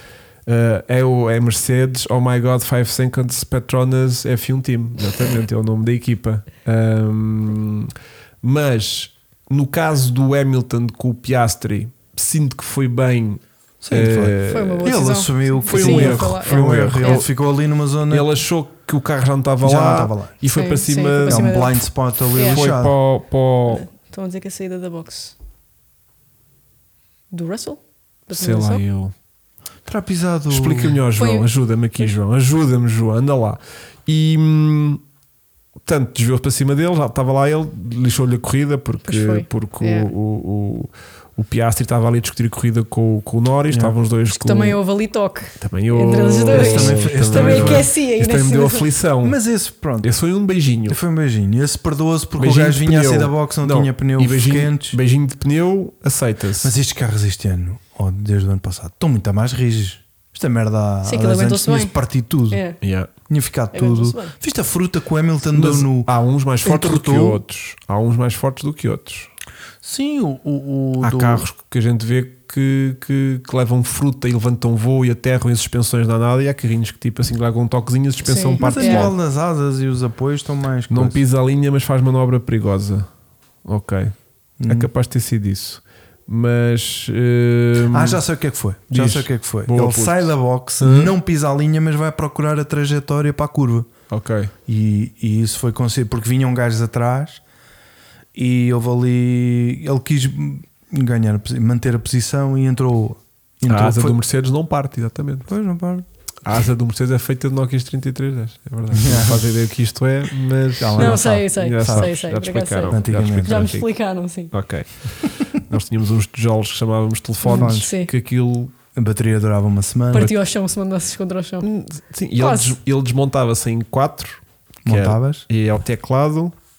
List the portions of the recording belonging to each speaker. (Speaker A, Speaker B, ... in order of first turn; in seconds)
Speaker A: 0.5-14.9, 15.7-17.3, 18.1-21.6, 22.4-23.8, 28.3-29.1, 30.5-35.0, 35.8-44.8, 45.6-49.4, 50.0-51.0, 52.4-56.7, 62.8-63.1, 65.5-69.3, 71.0-79.1, 80.9-83.1, 83.6-88.2, 88.9-91.1, 94.1-94.5, 103.7-105.5, 106.4-113.9, 114.5-118.7, 121.6-126.5
Speaker B: 13.8-18.3, 19.6-20.3, 21.2-22.9, 29.9-31.0, 43.7-43.9, 46.5-47.9, 49.2-50.1, 50.9-55.0, 56.6-62.6, 63.3-66.1, 66.6-67.4, 69.8-71.5, 78.6-81.2, 84.6-84.9, 87.9-93.9, 94.7-97.4, 98.3-104.2, 105.5-106.0, 108.9-109.5, 110.8-112.1, 112.9-113.7, 117.5-117.9, 118.9-120.3, 124.8-125.4
Speaker C: 14.5-17.2, 20.5-21.8, 22.3-22.6, 23.7-25.3, 27.3-28.8, 31.1-31.5, 39.0-40.1, 44.3-48.9, 61.0-61.9, 62.5-62.8, 63.7-64.3, 78.2-79.1, 111.0-114.5, 117.4-118.1, 120.1-121.7, 122.4-122.8